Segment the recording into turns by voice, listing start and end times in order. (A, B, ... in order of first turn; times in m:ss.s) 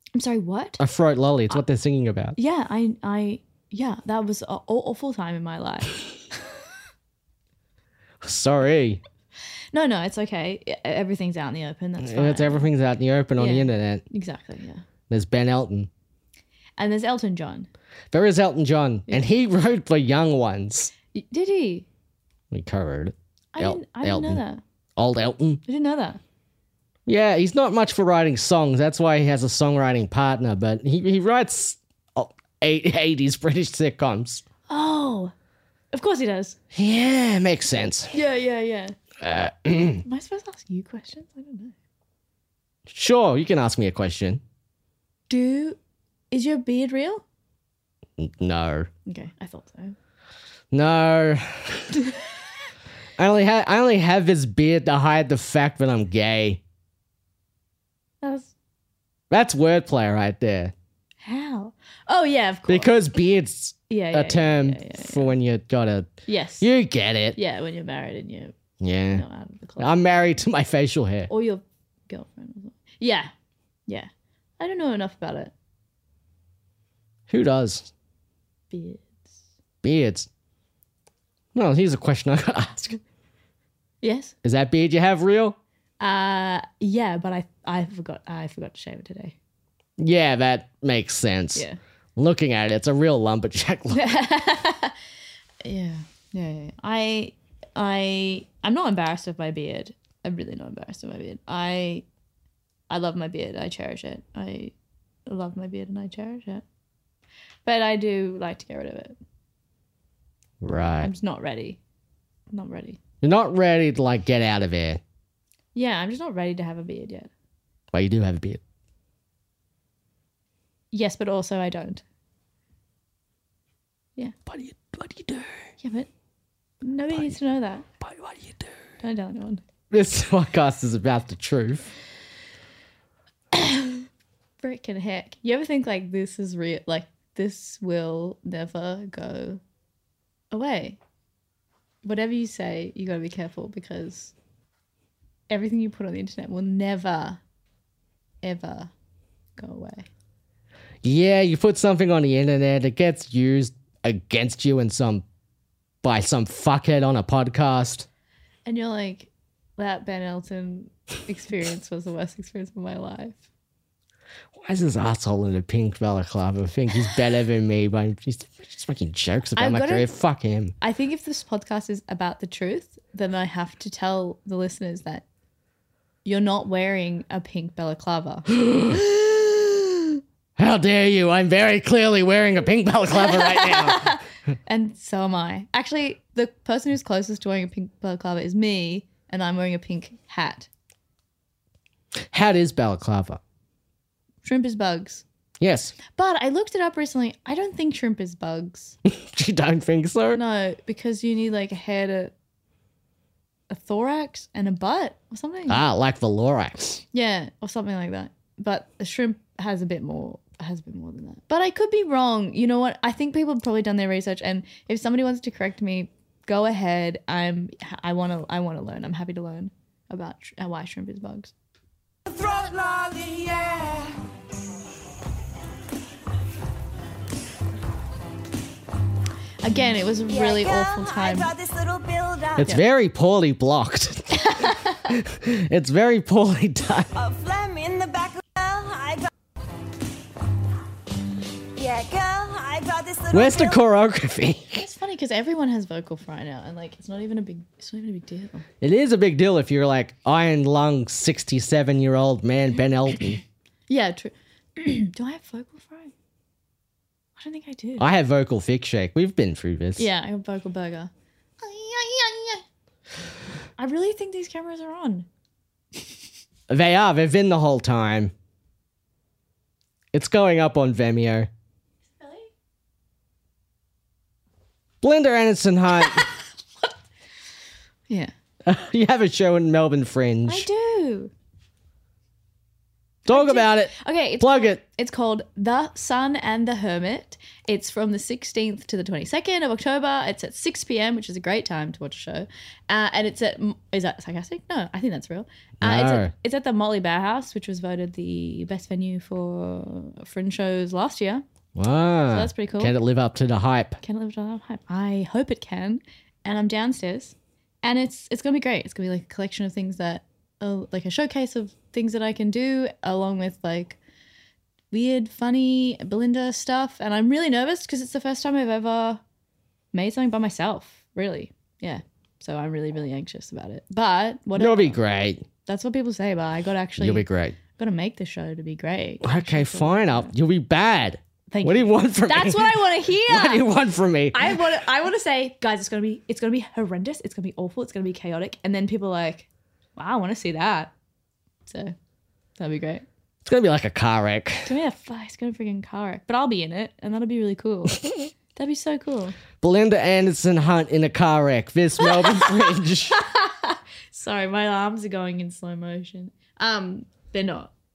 0:00.1-0:00.8 A
0:00.8-0:02.4 B
0:02.4-0:06.4 A
0:08.2-0:09.0 B
0:09.7-0:12.7 A
0:12.0-0:14.0 B
0:13.4-0:14.8 A
0:15.1-0:15.9 B
0:16.8-0:17.7 A
0:18.1-0:20.9 B
0:21.1-0:21.9 A
0:22.5-0:24.4 B
0:23.5-0:24.6 A
0:25.0-0:25.6 B
0:25.6-0:26.2 A
0:27.0-0:34.4 B
0:34.7-0:35.3 A
0:35.9-0:36.6 A
0:36.7-0:38.1 B
0:38.1-0:38.9 A
0:39.2-0:40.0 B
0:40.0-0:41.7 A
0:42.9-0:44.4 B
0:45.3-0:45.8 A
0:46.3-0:47.2 A
0:48.2-0:48.9 B
0:49.0-0:50.0 A
0:50.7-0:52.0 B
0:53.2-0:56.6 B
0:58.2-0:58.5 A
0:59.3-1:00.7 B
1:01.2-1:02.9 A
1:02.7-1:07.4 B
1:03.9-1:05.3 A
1:06.3-1:06.7 A
1:07.3-1:08.6 A
1:08.8-1:09.2 B
1:09.1-1:10.0 A
1:09.8-1:11.3 B
1:11.3-1:13.3 A
1:13.9-1:15.5 A
1:17.3-1:17.9 B
1:18.7-1:19.2 A
1:19.8-1:20.3 B
1:21.5-1:23.0 B
1:24.0-1:24.3 A
1:24.4-1:25.6 B
1:26.0-1:29.4 A
1:30.0-1:34.1 B
1:33.9-1:34.9 A
1:35.6-1:42.0 A
1:42.9-1:44.7 A
1:45.3-1:46.6 A
1:47.6-1:49.2 A
1:50.6-1:51.1 B
1:51.0-1:51.8 A
1:52.5-1:53.0 A
1:53.2-1:55.0 B
1:55.7-1:57.3 A
1:57.9-1:58.6 B
2:00.9-2:02.0 A
2:04.5-2:05.6 B
2:05.8-2:06.1 A
2:06.8-2:07.8 A
2:08.0-2:08.7 B
2:09.0-2:09.6 A
2:09.9-2:11.9 B
2:13.5-2:14.1 A
2:14.6-2:19.6 A
2:20.5-2:21.0 A
2:22.0-2:24.3 A
2:25.5-2:27.4 A
2:28.4-2:28.9 A
2:29.6-2:30.1 A
2:31.0-2:35.2 B
2:36.0-2:38.1 B
2:38.6-2:43.4 A
2:44.5-2:50.7 B
2:49.6-2:50.1 A
2:50.8-2:55.2 A
2:56.2-3:00.2 A
2:58.6-2:59.0 B
3:00.6-3:04.2 B
3:03.3-3:10.7 A
3:12.3-3:13.4 B
3:14.4-3:15.2 A
3:15.6-3:15.9 B
3:16.1-3:19.0 A
3:19.0-3:20.4 B
3:20.3-3:22.3 A
3:23.7-3:25.8 A
3:25.7-3:27.0 B
3:27.1-3:41.5 A
3:42.2-3:44.2 C
3:49.6-3:51.5 A
3:50.3-3:52.7 D
3:52.6-3:57.1 B
3:54.4-3:54.9 A
3:57.1-3:59.3 D
4:01.8-4:03.8 D
4:03.3-4:04.8 B
4:04.7-4:08.6 A
4:08.8-4:13.4 B
4:13.9-4:16.1 A
4:17.4-4:18.1 A
4:18.0-4:20.1 B
4:20.0-4:22.6 A
4:23.8-4:25.3 A
4:26.7-4:28.3 B
4:30.1-4:31.5 B
4:32.2-4:32.5 A
4:35.0-4:36.3 B
4:38.6-4:40.7 B
4:40.4-4:41.3 A
4:43.2-4:44.8 B
4:43.2-5:01.4 A
4:55.8-4:56.3 B
5:01.8-5:04.0 B
5:02.3-5:02.9 A
5:04.0-5:14.0 A
5:14.9-5:19.2 A
5:19.9-5:25.0 A
5:24.6-5:25.4 B
5:25.6-5:30.3 A
5:27.0-5:27.6 B
5:29.2-5:34.6 B
5:31.5-5:33.7 A
5:34.3-5:40.9 A
5:41.6-5:41.9 A
5:42.6-5:43.0 A
5:43.4-5:44.7 B
5:44.6-5:49.4 A
5:49.6-5:53.2 B
5:52.2-5:57.7 A